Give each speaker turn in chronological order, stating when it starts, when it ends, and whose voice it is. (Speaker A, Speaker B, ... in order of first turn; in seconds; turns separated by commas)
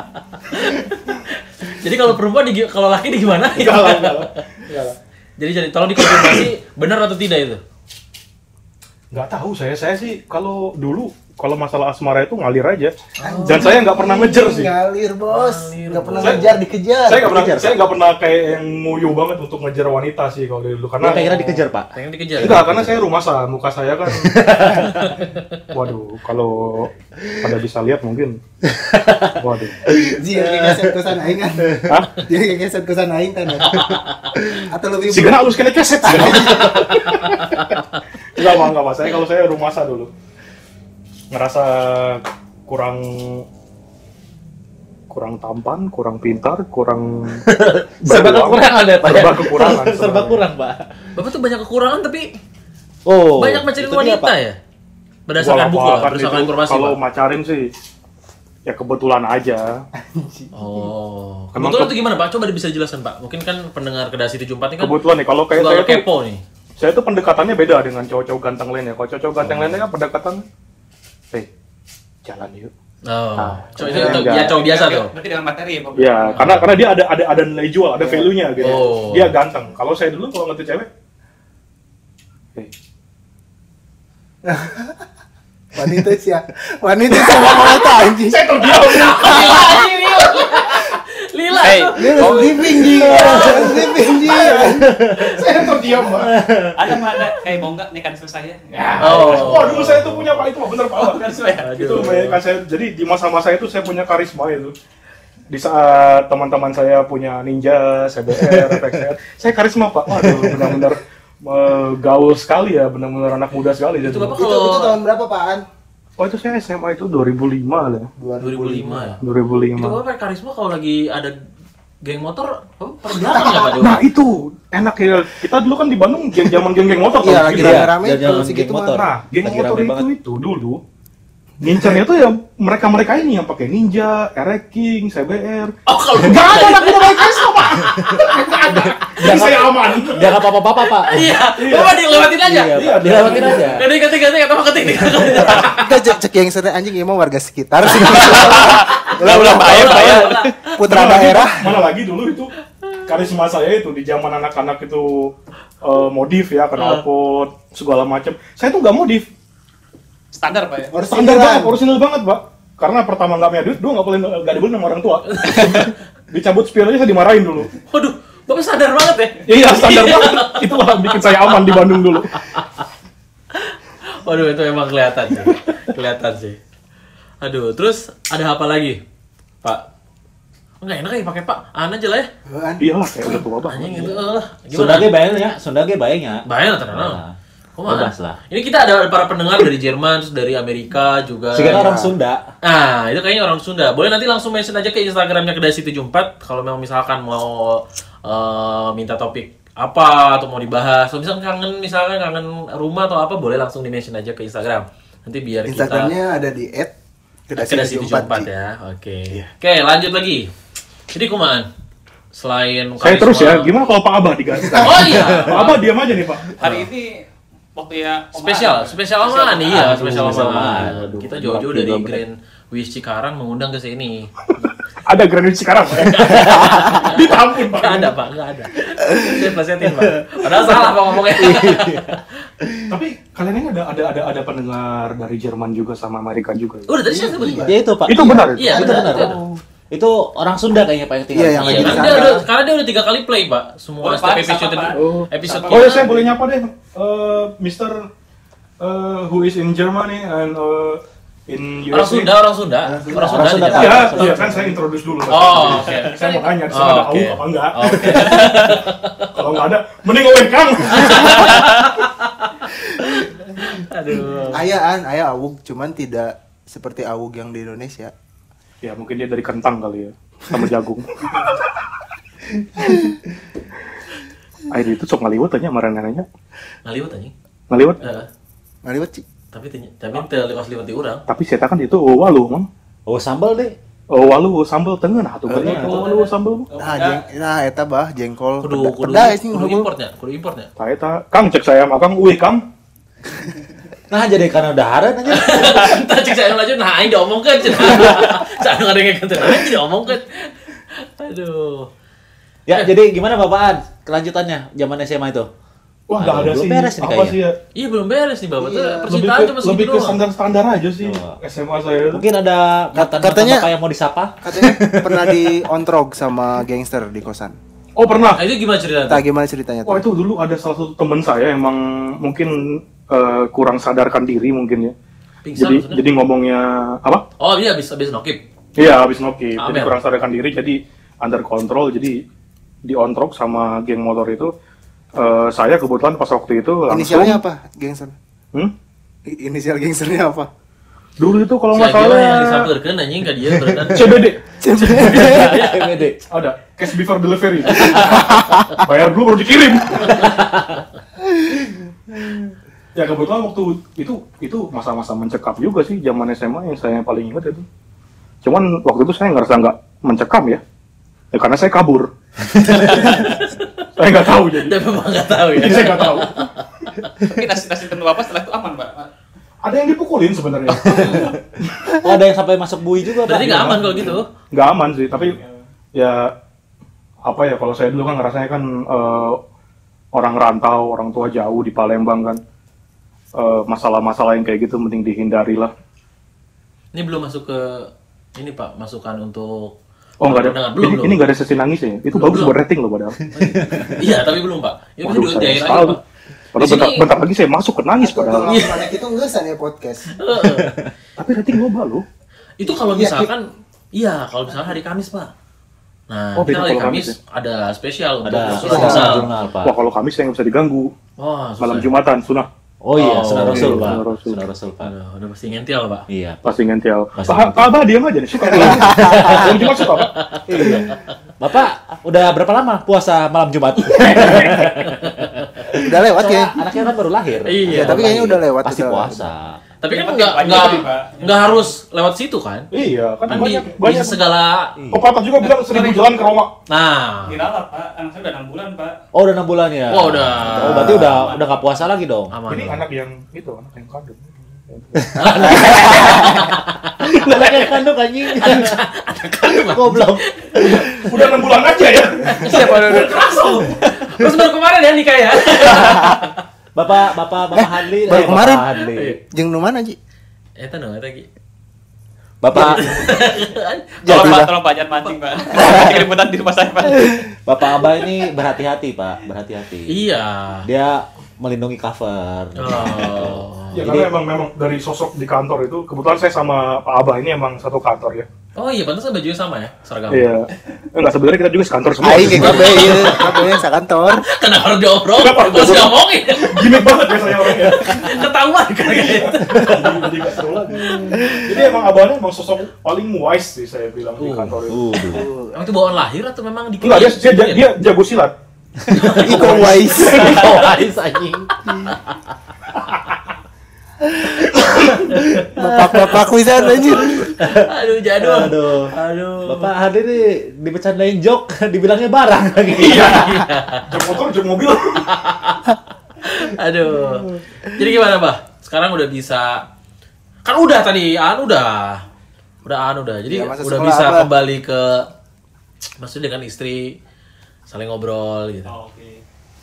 Speaker A: 0.4-4.4, Speaker B: 3.5-5.0, Speaker A: 5.4-7.6, Speaker B: 6.0-6.5, Speaker B: 9.1-14.7, Speaker A: 13.2-13.8, Speaker C: 13.2-17.8, Speaker A: 15.3-16.6, Speaker B: 16.2-21.6, Speaker D: 21.0-23.1, Speaker A: 21.9-22.9, Speaker B: 22.4-24.5, Speaker D: 24.1-25.1, Speaker A: 24.8-25.6, Speaker B: 25.7-28.4, Speaker D: 28.7-31.1, Speaker B: 29.2-29.8, Speaker C: 29.9-37.0, Speaker B: 31.9-32.2, Speaker A: 33.6-34.4, Speaker B: 35.1-37.8, Speaker A: 37.3-37.8, Speaker B: 38.4-40.1, Speaker B: 41.3-43.4, Speaker B: 45.1-47.4, Speaker D: 47.5-50.9, Speaker B: 48.0-50.4, Speaker A: 51.1-52.4, Speaker D: 53.0-54.3, Speaker A: 53.4-54.6, Speaker A: 55.3-57.0, Speaker B: 55.4-57.7, Speaker B: 58.6-59.8, Speaker C: 60.0-60.9, Speaker A: 60.5-65.0, Speaker B: 61.5-62.0, Speaker B: 64.8-66.0, Speaker A: 65.5-66.4, Speaker B: 66.8-70.4, Speaker A: 69.5-69.8, Speaker B: 72.2-72.7, Speaker A: 73.0-75.1, Speaker B: 73.4-74.6, Speaker E: 74.0-76.5, Speaker B: 75.9-80.9, Speaker A: 76.3-76.8, Speaker C: 78.0-78.3, Speaker A: 78.6-79.4, Speaker C: 84.4-85.0, Speaker C: 85.8-90.6, Speaker B: 87.1-89.8, Speaker A: 88.8-93.9, Speaker E: 91.6-93.2, Speaker C: 91.9-95.0, Speaker D: 93.2-97.2, Speaker B: 94.3-96.4, Speaker E: 96.8-99.7, Speaker B: 98.7-104.8, Speaker A: 99.0-100.4, Speaker E: 100.9-102.0, Speaker A: 101.6-102.4, Speaker B: 105.5-114.4, Speaker D: 108.3-109.1, Speaker D: 110.1-110.8, Speaker A: 114.0-115.0, Speaker C: 114.3-115.6, Speaker B: 116.2-118.1, Speaker C: 118.2-119.2, Speaker A: 118.4-119.2, Speaker B: 119.2-120.0, Speaker A: 119.8-121.4, Speaker A: 122.0-124.0, Speaker E: 123.2-123.5, Speaker B: 123.5-130.8, Speaker C: 127.2-129.1, Speaker D: 127.5-130.1, Speaker B: 131.6-140.4, Speaker C: 131.6-131.9, Speaker A: 135.9-138.2, Speaker D: 137.9-141.4, Speaker A: 141.1-146.0, Speaker B: 141.5-142.0, Speaker D: 142.4-143.9, Speaker B: 142.7-143.8, Speaker B: 145.4-145.7, Speaker C: 145.6-151.8, Speaker A: 147.9-150.8, Speaker E: 148.0-150.5, Speaker B: 149.6-150.1, Speaker B: 150.8-152.5, Speaker B: 153.1-159.2, Speaker A: 156.8-157.0, Speaker E: 160.3-160.9, Speaker C: 160.9-161.8, Speaker B: 161.1-167.7, Speaker A: 165.3-165.9, Speaker A: 167.9-171.7, Speaker B: 169.4-172.4, Speaker A: 172.3-172.8, Speaker A: 173.5-176.6, Speaker A: 177.4-179.0, Speaker A: 180.8-182.3, Speaker C: 182.5-182.9, Speaker B: 182.8-184.2, Speaker A: 183.6-185.1, Speaker D: 184.7-187.3, Speaker A: 186.4-187.2, Speaker A: 187.8-191.9, Speaker D: 187.9-188.4, Speaker D: 191.5-192.5, Speaker C: 191.6-192.1, Speaker A: 192.6-206.1, Speaker C: 205.7-206.9, Speaker C: 207.5-208.5, Speaker A: 207.6-210.5, Speaker A: 211.1-211.7, Speaker A: 212.3-213.7, Speaker B: 213.0-216.5, Speaker C: 214.7-215.0, Speaker A: 214.8-215.9, Speaker D: 215.1-215.5, Speaker E: 216.6-217.2, Speaker A: 216.6-216.9, Speaker E: 217.8-220.2, Speaker A: 218.4-224.7, Speaker D: 219.7-221.0, Speaker B: 219.9-222.2, Speaker B: 224.6-228.1, Speaker A: 225.9-232.3, Speaker D: 229.9-232.9, Speaker B: 232.9-236.9, Speaker A: 236.9-237.8, Speaker C: 237.0-239.5, Speaker D: 237.6-242.4, Speaker B: 238.0-238.9, Speaker A: 238.5-239.4, Speaker C: 241.3-242.4, Speaker A: 241.6-246.1, Speaker E: 244.0-246.3, Speaker B: 244.9-248.0, Speaker B: 248.8-252.3, Speaker A: 251.9-254.5, Speaker C: 252.8-254.1, Speaker D: 253.1-254.7, Speaker B: 253.7-258.8, Speaker A: 255.3-259.6, Speaker B: 259.4-261.8, Speaker A: 260.9-264.7, Speaker C: 264.5-268.1, Speaker B: 268.8-271.6, Speaker B: 274.7-276.2, Speaker A: 276.9-277.3, Speaker B: 277.7-278.0, Speaker A: 278.0-278.3, Speaker C: 278.8-279.2, Speaker A: 279.5-281.2, Speaker B: 281.3-282.7, Speaker D: 283.1-283.8, Speaker B: 284.1-286.7, Speaker D: 285.5-285.9, Speaker C: 285.5-286.0, Speaker E: 285.6-287.2, Speaker C: 286.8-289.9, Speaker A: 288.6-290.7, Speaker B: 290.8-292.6, Speaker D: 294.1-296.0, Speaker A: 295.3-301.9, Speaker D: 297.7-298.4, Speaker D: 302.7-305.5, Speaker B: 306.1-307.6, Speaker D: 306.2-307.4, Speaker A: 307.8-310.2, Speaker C: 308.6-309.1, Speaker B: 309.1-312.2, Speaker D: 311.0-311.4, Speaker D: 312.1-315.6, Speaker C: 312.9-313.7, Speaker C: 314.4-317.6, Speaker B: 318.0-318.4, Speaker A: 318.3-319.2, Speaker C: 319.1-320.1, Speaker B: 319.9-324.9, Speaker A: 325.4-326.0, Speaker B: 325.6-327.2, Speaker A: 327.4-328.4, Speaker B: 328.8-332.2, Speaker A: 329.6-329.9, Speaker B: 332.9-334.5, Speaker B: 335.1-337.4, Speaker C: 336.9-338.1, Speaker C: 339.3-340.5, Speaker B: 341.2-342.7, Speaker A: 341.7-346.1, Speaker D: 343.5-344.2, Speaker B: 343.9-344.4, Speaker C: 344.6-345.5, Speaker D: 344.9-346.2, Speaker B: 346.3-350.2, Speaker D: 347.7-348.4, Speaker A: 347.8-348.1, Speaker C: 348.1-348.6, Speaker D: 349.9-350.8, Speaker A: 350.1-350.4, Speaker D: 352.1-352.4, Speaker B: 352.9-357.6, Speaker B: 358.4-360.6, Speaker B: 361.3-362.1, Speaker A: 362.6-363.9, Speaker B: 362.8-363.3, Speaker B: 364.0-364.8, Speaker A: 364.5-367.1, Speaker B: 365.5-366.5, Speaker E: 367.2-369.1, Speaker B: 369.6-372.0, Speaker D: 372.0-373.9, Speaker A: 373.2-374.3, Speaker B: 373.4-375.4, Speaker E: 375.1-375.6, Speaker B: 375.9-376.3, Speaker B: 377.2-379.4, Speaker B: 380.1-382.4, Speaker B: 383.4-385.7, Speaker A: 386.9-391.2, Speaker B: 390.2-393.2, Speaker A: 392.1-392.6, Speaker D: 393.3-394.2, Speaker A: 393.3-396.0, Speaker B: 395.0-396.0, Speaker B: 396.5-398.6, Speaker A: 396.6-397.1, Speaker C: 398.0-400.1, Speaker A: 398.4-398.9, Speaker A: 400.2-400.8, Speaker D: 400.4-400.9, Speaker B: 401.2-402.0, Speaker A: 402.6-405.3, Speaker C: 402.6-403.3, Speaker A: 406.1-409.3, Speaker B: 406.4-407.1, Speaker D: 408.2-409.8, Speaker C: 408.6-409.1, Speaker B: 408.6-410.9, Speaker A: 411.2-411.9, Speaker B: 411.6-412.5, Speaker D: 412.8-414.9, Speaker A: 412.9-414.0, Speaker B: 413.2-414.4, Speaker A: 414.8-416.1, Speaker D: 416.1-416.4, Speaker B: 416.4-420.3, Speaker D: 417.2-417.8, Speaker D: 418.6-419.6, Speaker C: 418.6-419.4, Speaker A: 419.9-421.0, Speaker D: 420.5-429.6, Speaker A: 424.0-425.4, Speaker C: 425.7-426.6, Speaker A: 427.4-428.2, Speaker C: 427.7-429.2, Speaker A: 429.8-432.7, Speaker E: 429.9-431.7, Speaker B: 432.7-434.2, Speaker A: 433.3-434.8, Speaker B: 434.9-436.5, Speaker E: 435.4-436.3, Speaker A: 436.7-437.4, Speaker E: 437.2-439.0, Speaker D: 439.1-442.3, Speaker A: 439.9-441.2, Speaker E: 440.6-441.8, Speaker A: 442.3-442.8, Speaker B: 442.5-445.2, Speaker D: 445.0-448.8, Speaker A: 445.2-447.6, Speaker C: 445.6-446.3, Speaker A: 448.3-451.1, Speaker D: 449.4-450.9, Speaker B: 450.6-452.6, Speaker A: 452.2-456.4, Speaker E: 452.5-453.6, Speaker C: 455.6-456.1, Speaker D: 456.8-459.2, Speaker C: 457.5-460.0, Speaker A: 458.9-459.2, Speaker A: 460.6-461.3, Speaker D: 462.4-463.1, Speaker A: 462.5-464.5, Speaker C: 464.0-464.5, Speaker E: 464.1-467.2, Speaker A: 465.0-465.9, Speaker C: 465.6-465.9, Speaker D: 467.4-469.9, Speaker A: 469.9-470.7, Speaker D: 470.6-474.1, Speaker A: 472.6-473.9, Speaker B: 473.7-478.3, Speaker A: 478.6-480.3, Speaker B: 480.1-483.2, Speaker C: 482.0-484.2, Speaker A: 482.2-483.6, Speaker A: 484.1-490.1, Speaker B: 485.1-488.2, Speaker B: 488.9-494.9, Speaker D: 489.4-490.0, Speaker A: 490.8-491.4, Speaker A: 494.2-494.6, Speaker D: 494.7-495.3, Speaker C: 495.1-495.6, Speaker A: 495.5-497.7, Speaker B: 496.8-498.3, Speaker D: 498.9-501.9, Speaker A: 498.9-500.9, Speaker C: 499.2-500.5, Speaker B: 499.4-500.4, Speaker A: 501.9-502.1, Speaker A: 504.8-505.5, Speaker D: 505.1-506.3, Speaker C: 505.5-507.2, Speaker A: 506.8-509.7, Speaker D: 506.8-508.9, Speaker D: 509.4-513.4, Speaker B: 512.8-515.2, Speaker A: 512.8-514.0, Speaker A: 515.0-519.6, Speaker A: 520.4-522.0, Speaker A: 522.6-525.1, Speaker C: 523.3-524.3, Speaker A: 526.0-527.0, Speaker A: 527.7-528.7, Speaker E: 528.6-529.2